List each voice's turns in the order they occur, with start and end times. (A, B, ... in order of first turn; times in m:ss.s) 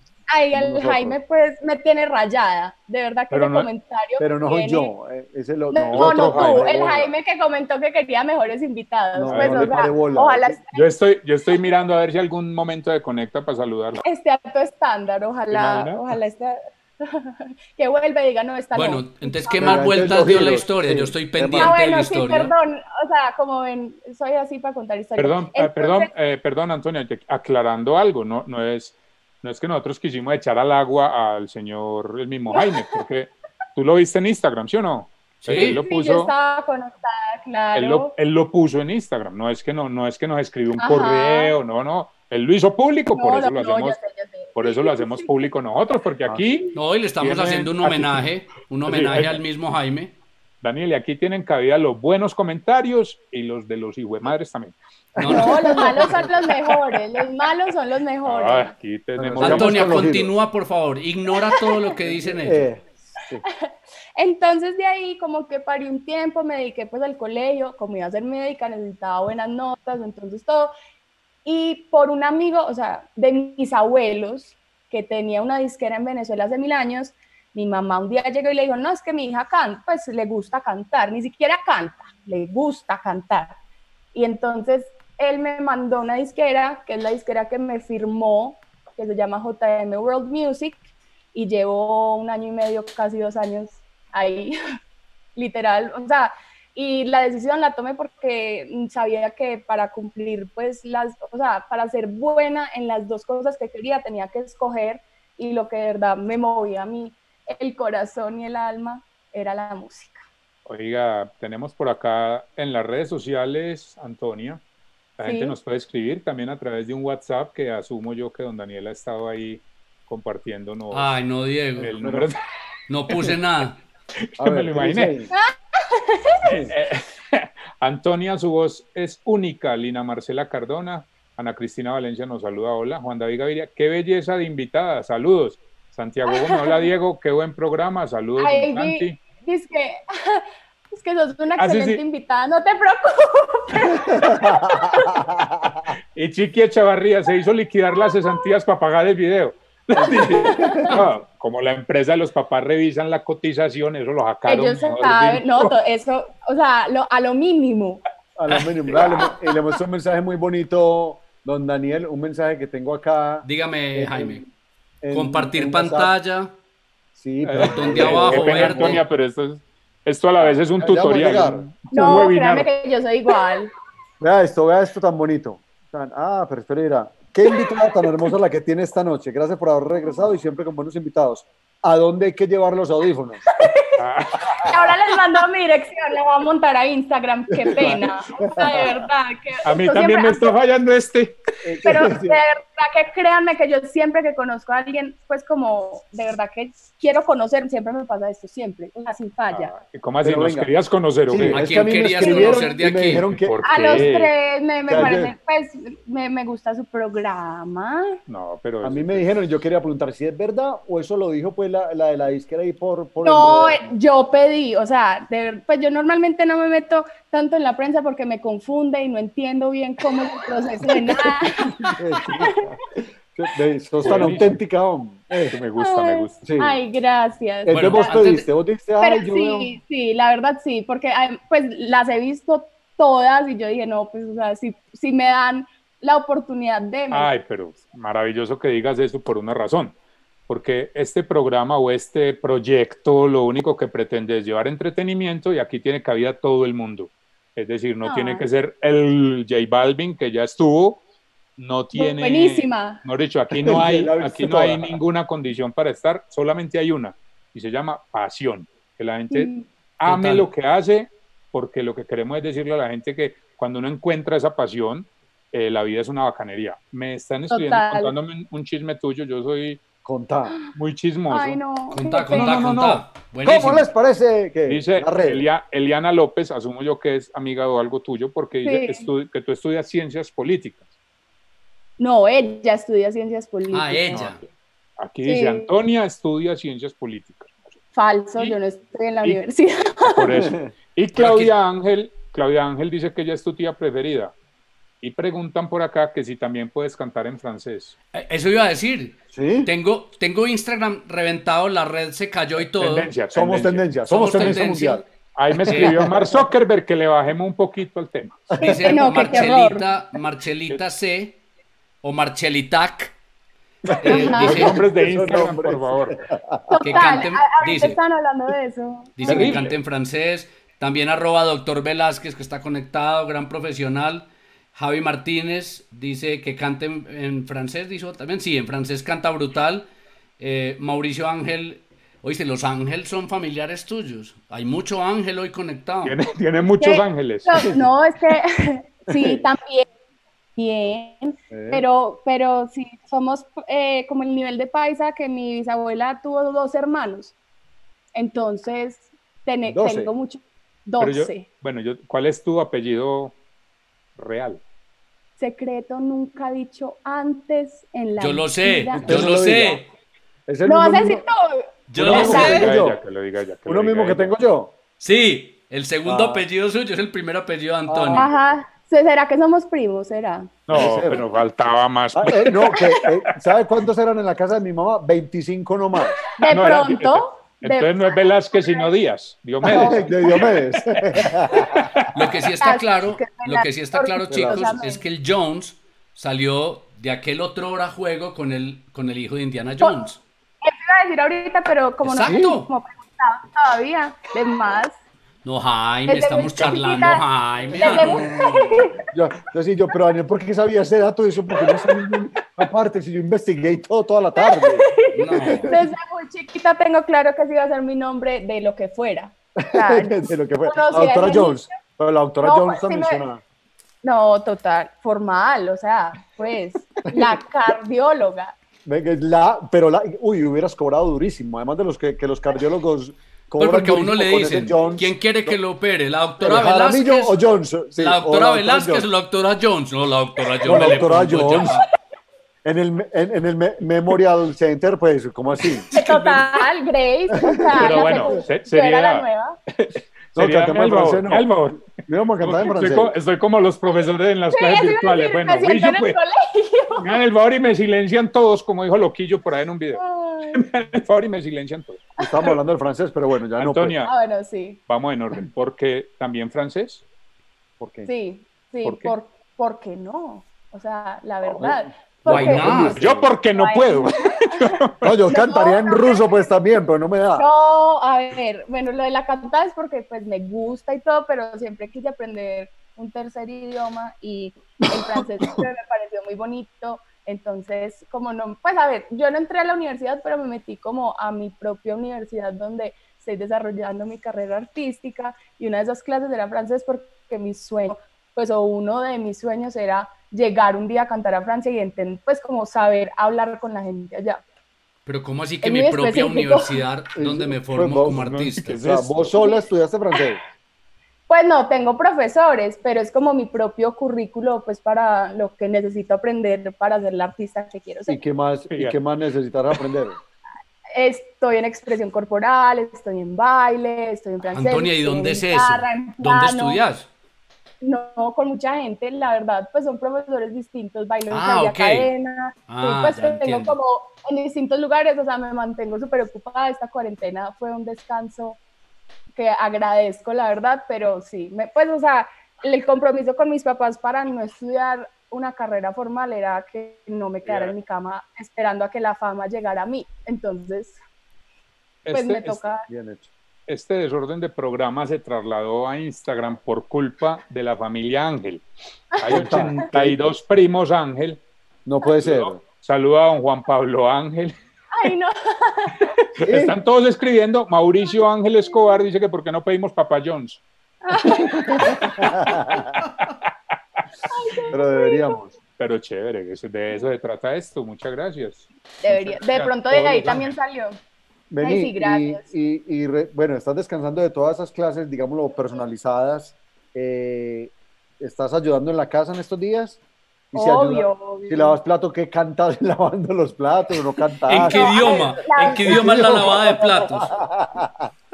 0:00.3-0:04.9 A
0:00.5-0:01.2 B
0:03.3-0:03.7 C
0:04.2-0:07.1 B
0:05.7-0:10.8 A
0:05.9-0:06.7 C
0:09.1-0:10.6 B
0:09.3-0:09.8 C
0:10.7-0:14.0 C
0:14.0-0:20.4 A
0:15.5-0:16.0 C
0:18.7-0:22.5 D
0:19.6-0:21.8 B
0:21.6-0:26.1 A
0:25.2-0:36.3 C
0:32.5-0:32.8 A
0:35.4-0:35.8 D
0:35.7-0:38.1 A
0:37.7-0:44.0 C
0:40.8-0:41.5 A
0:43.2-0:45.3 A
0:44.6-0:48.2 C
0:46.8-0:50.1 D
0:48.9-0:49.4 C
0:50.6-0:54.8 C
0:55.2-0:56.2 B
0:55.2-0:55.5 D
0:55.2-0:58.7 A
0:58.2-0:59.9 C
0:59.2-1:00.3 B
0:59.4-1:02.6 D
1:02.0-1:03.4 B
1:04.2-1:10.7 A
1:11.4-1:23.6 A
1:24.1-1:34.5 A
1:35.4-1:50.2 A
1:50.7-1:54.6 C
1:55.2-2:01.2 C
1:55.2-1:55.6 A
2:00.9-2:01.9 D
2:01.8-2:02.4 C
2:01.8-2:02.3 B
2:02.9-2:03.8 D
2:04.4-2:05.1 C
2:04.4-2:05.3 B
2:05.4-2:06.3 A
2:06.4-2:19.2 C
2:06.4-2:06.7 B
2:16.3-2:16.9 A
2:18.4-2:25.3 A
2:21.6-2:22.0 C
2:24.1-2:25.8 B
2:26.2-2:35.7 C
2:30.0-2:31.0 B
2:30.3-2:31.0 A
2:34.5-2:38.0 A
2:38.4-2:44.4 B
2:38.9-2:39.3 C
2:43.4-2:44.4 D
2:45.0-2:46.1 B
2:45.1-2:46.5 D
2:47.2-2:49.0 B
2:47.4-2:52.7 C
2:47.6-2:49.0 D
2:50.4-2:52.3 B
2:51.9-2:53.7 A
2:54.2-3:03.4 B
3:03.6-3:03.9 A
3:04.0-3:04.7 C
3:04.7-3:10.5 A
3:07.5-3:09.0 B
3:09.6-3:11.4 C
3:11.6-3:12.4 B
3:11.8-3:19.7 A
3:19.5-3:21.6 C
3:20.2-3:20.7 B
3:21.3-3:24.1 B
3:21.4-3:23.3 D
3:22.2-3:22.8 A
3:23.2-3:24.3 C
3:23.6-3:28.2 A
3:24.9-3:25.4 B
3:28.3-3:29.3 C
3:28.8-3:34.0 B
3:33.2-3:42.3 A
3:42.0-3:45.6 B
3:44.0-3:44.6 C
3:45.5-3:46.4 C
3:45.8-3:48.2 A
3:46.4-3:46.8 B
3:47.6-3:49.7 B
3:47.7-3:48.5 D
3:49.0-3:57.3 A
3:57.1-4:00.0 C
4:00.5-4:11.0 C
4:08.0-4:08.4 A
4:11.6-4:29.8 C
4:12.0-4:13.0 A
4:13.5-4:15.0 B
4:19.3-4:19.6 A
4:20.0-4:20.5 D
4:27.5-4:28.1 A
4:30.0-4:30.6 B
4:30.8-4:31.6 C
4:31.3-4:32.6 A
4:31.9-4:33.9 D
4:32.3-4:33.0 C
4:33.4-4:35.5 B
4:34.7-4:40.8 C
4:38.6-4:39.1 A
4:42.0-4:44.3 A
4:43.7-4:44.4 D
4:44.2-4:44.5 C
4:45.0-4:47.6 C
4:45.2-4:45.7 A
4:47.9-4:50.3 A
4:50.0-4:54.3 C
4:50.3-4:50.7 B
4:51.1-4:51.5 D
4:55.0-4:57.9 C
4:58.1-5:03.1 D
4:59.3-4:59.7 B
5:02.8-5:04.6 C
5:03.3-5:06.5 B
5:04.1-5:05.0 D
5:05.4-5:08.6 C
5:05.7-5:06.0 D
5:08.5-5:08.8 B
5:08.6-5:09.9 A
5:08.6-5:11.4 D
5:12.0-5:13.1 D
5:13.8-5:17.0 B
5:14.0-5:14.8 D
5:14.1-5:14.6 A
5:14.2-5:16.2 C
5:16.7-5:19.5 A
5:16.8-5:18.0 D
5:19.2-5:29.9 D
5:19.3-5:19.8 C
5:30.4-5:36.2 D
5:36.0-5:37.7 C
5:36.8-5:39.9 A
5:39.1-5:39.4 B
5:40.6-5:47.4 A
5:41.5-5:41.9 B
5:48.2-5:51.5 A
5:49.6-5:50.1 B
5:51.0-5:53.4 C
5:54.2-5:54.6 C
5:55.4-5:59.4 A
5:58.2-5:59.9 D
5:59.0-5:59.8 B
6:00.5-6:01.3 B
6:00.6-6:02.6 A
6:01.9-6:02.7 D
6:02.0-6:03.0 B
6:02.0-6:04.4 C
6:03.7-6:04.7 B
6:05.0-6:08.3 D
6:06.0-6:06.4 B
6:07.9-6:08.3 B
6:08.1-6:10.6 A
6:10.7-6:13.0 C
6:10.7-6:11.2 B
6:12.2-6:16.2 B
6:16.4-6:18.9 A
6:16.5-6:20.6 C
6:19.6-6:21.9 B
6:19.7-6:20.4 A
6:21.2-6:22.1 C
6:22.1-6:30.2 D
6:22.6-6:25.0 A
6:24.3-6:24.7 B
6:30.6-6:35.0 A
6:32.0-6:32.7 D
6:32.2-6:32.5 B
6:35.4-6:38.9 D
6:36.1-6:39.0 A
6:39.1-6:44.9 B
6:44.4-6:51.7 A
6:45.1-6:45.7 D
6:45.4-6:45.8 B
6:49.6-6:53.4 B
6:52.4-6:53.2 A
6:54.0-6:58.6 A
6:57.1-6:57.4 B
6:58.8-7:05.6 B
7:03.6-7:07.4 D
7:06.4-7:09.1 B
7:08.0-7:11.9 D
7:10.6-7:11.8 B
7:12.6-7:15.9 B
7:15.9-7:16.5 C
7:15.9-7:19.6 A
7:17.5-7:18.4 B
7:17.8-7:26.2 C
7:20.4-7:23.2 B
7:24.5-7:27.2 A
7:27.0-7:30.0 C
7:30.0-7:30.7 A
7:30.5-7:32.1 C
7:32.2-7:34.0 B
7:32.2-7:32.5 A
7:33.6-7:34.1 C
7:34.0-7:34.8 A
7:34.9-7:37.0 C
7:37.8-7:38.1 B
7:38.1-7:43.0 A
7:38.8-7:39.1 C
7:41.4-7:43.3 B
7:42.2-7:43.0 D
7:43.0-7:45.2 C
7:43.6-7:44.5 A
7:45.0-7:47.5 B
7:45.3-7:46.4 A
7:47.4-8:14.4 A
7:55.0-7:55.7 B
8:15.1-8:18.8 D
8:15.6-8:16.8 A
8:17.2-8:18.2 B
8:18.1-8:19.4 C
8:18.8-8:20.4 B
8:19.4-8:19.7 A
8:21.3-8:28.2 A
8:28.1-8:30.2 B
8:28.7-8:29.0 C
8:31.0-8:36.8 A
8:34.5-8:37.1 D
8:37.8-8:48.6 A
8:41.3-8:42.1 D
8:42.7-8:43.8 D
8:49.3-9:01.0 A
8:57.4-8:57.8 C
9:02.0-9:02.6 C
9:02.1-9:02.9 A
9:02.9-9:03.3 B
9:03.7-9:08.6 C
9:09.2-9:09.8 A
9:09.2-9:11.4 C
9:09.3-9:10.2 B
9:11.9-9:12.6 B
9:12.2-9:14.5 C
9:14.9-9:16.3 A
9:16.4-9:20.6 C
9:16.4-9:16.8 B
9:18.0-9:19.0 A
9:21.0-9:22.3 A
9:21.5-9:22.9 B
9:21.8-9:22.1 C
9:24.3-9:25.4 A
9:24.7-9:25.5 B
9:25.8-9:30.5 C
9:29.0-9:31.0 A
9:31.5-9:40.0 B
9:31.6-9:32.4 A
9:40.5-9:48.1 B
9:40.5-9:41.8 A
9:44.5-9:47.3 D
9:44.5-9:47.2 A